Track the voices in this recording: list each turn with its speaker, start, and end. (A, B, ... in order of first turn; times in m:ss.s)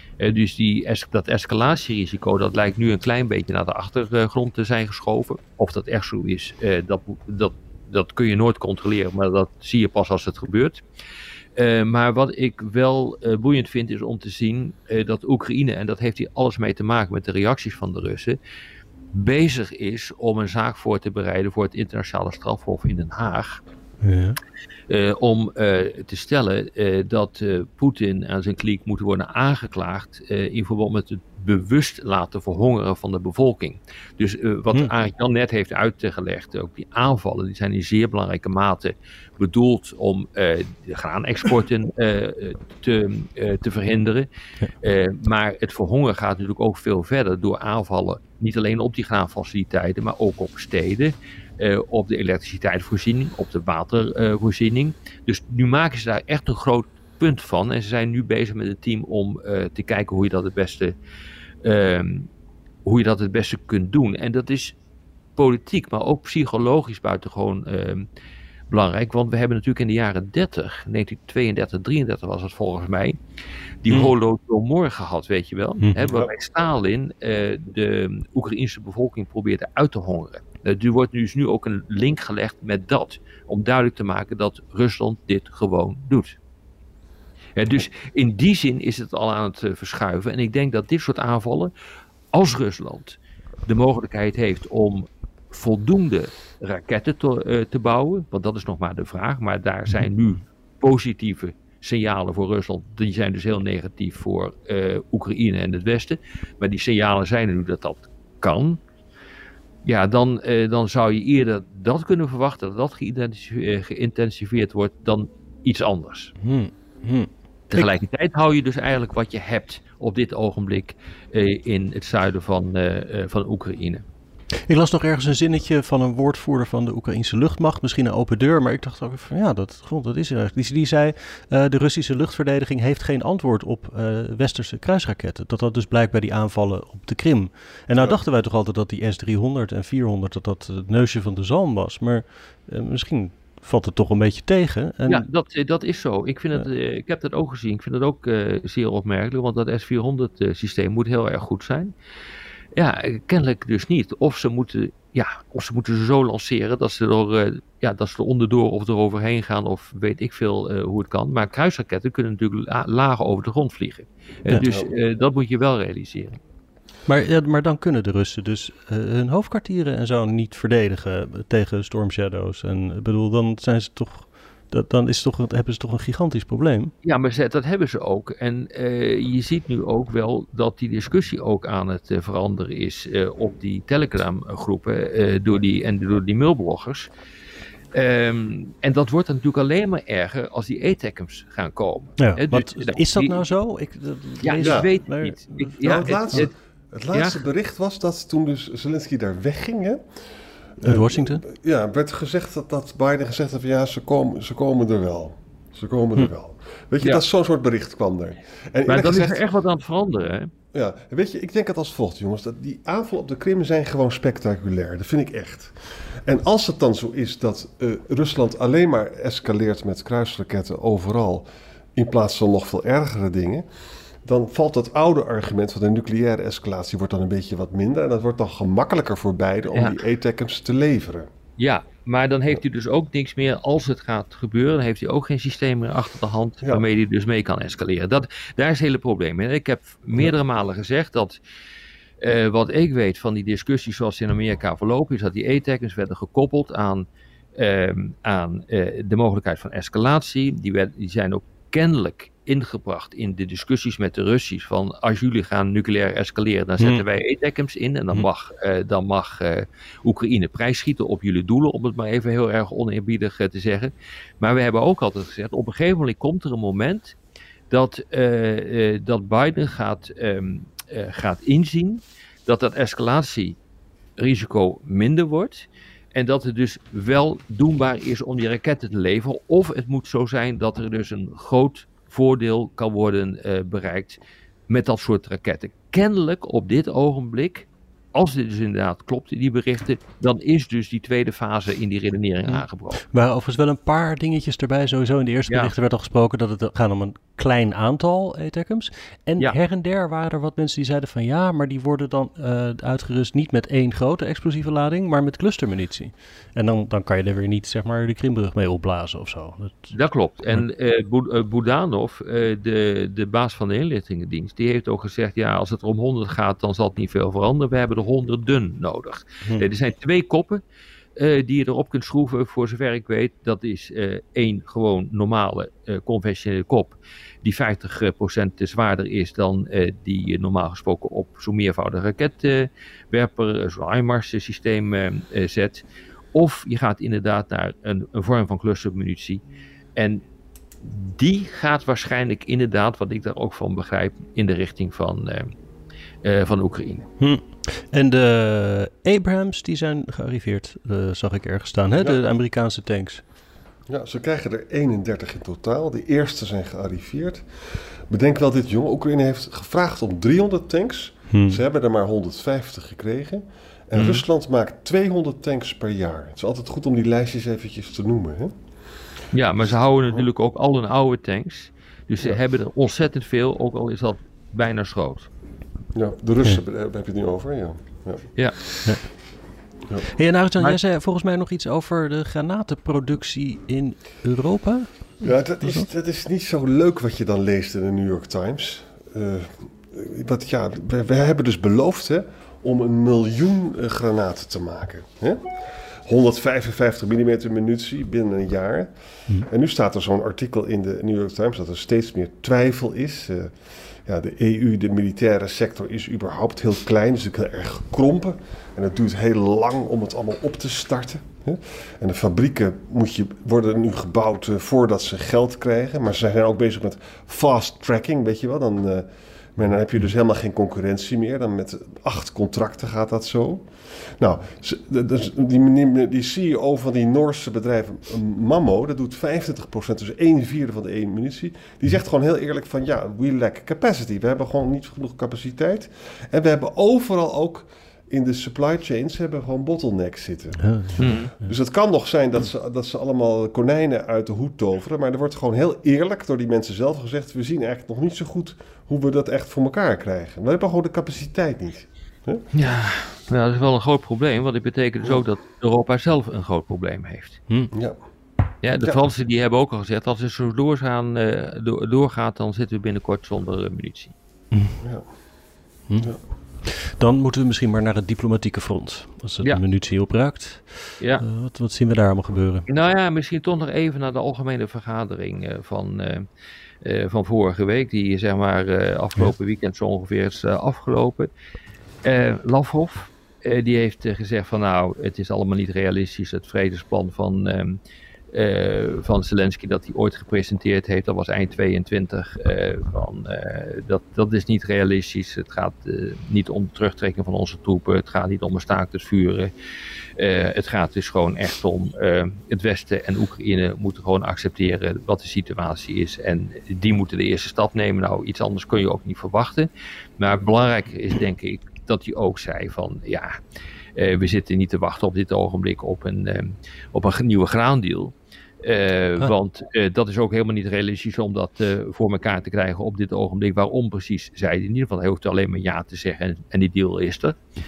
0:00.2-0:10.8 A
0:11.6-0:18.4 A
0:19.1-0:23.6 A
0:24.0-0:24.4 B
0:24.9-0:44.3 A
0:44.8-1:00.9 A
1:01.6-1:02.3 A
1:02.8-1:04.7 A
1:05.4-1:08.1 A
1:08.7-1:13.2 A
1:13.8-1:26.4 A
1:15.8-1:16.1 B
1:27.6-1:31.7 A
1:32.3-1:48.8 A
1:49.8-1:56.3 A
1:56.4-1:57.9 B
1:57.7-2:04.0 A
2:04.7-2:25.2 B
2:25.1-2:31.9 A
2:32.7-2:46.4 A
2:44.6-2:44.9 C
2:47.1-2:56.9 B
2:57.0-3:07.1 A
3:07.9-3:13.4 A
3:12.2-3:16.5 B
3:14.4-3:16.5 A
3:14.6-3:14.9 C
3:15.8-3:20.0 C
3:17.1-3:17.4 A
3:20.8-3:29.4 C
3:20.8-3:21.4 B
3:28.9-3:30.5 A
3:30.7-3:43.6 C
3:44.2-3:51.3 C
3:49.7-3:50.0 A
3:51.6-4:01.4 A
4:02.2-4:27.1 A
4:16.8-4:17.0 B
4:27.7-4:33.6 A
4:34.2-4:53.0 A
4:52.5-5:09.9 B
5:09.9-5:20.6 A
5:21.2-5:39.4 A
5:40.0-5:40.2 A
5:40.8-5:45.5 A
5:46.2-5:47.1 A
5:47.2-5:53.2 B
5:52.0-5:52.2 C
5:53.9-6:08.6 C
6:01.3-6:01.6 B
6:03.9-6:04.2 A
6:09.3-6:15.3 A
6:15.9-6:18.7 C
6:20.1-6:25.8 B
6:25.2-6:35.5 C
6:36.0-7:32.4 C
7:20.6-7:21.2 B
7:21.0-7:21.3 A
7:32.5-7:37.4 A
7:37.7-7:38.0 C
7:38.6-7:44.1 A
7:44.8-7:45.0 C
7:45.9-7:52.6 B
7:51.0-7:51.2 A
7:52.7-7:56.2 A
7:56.8-8:01.3 A
8:02.0-8:07.8 A
8:08.3-8:19.5 A
8:20.2-8:29.7 A
8:30.2-8:33.4 A
8:34.0-8:47.4 A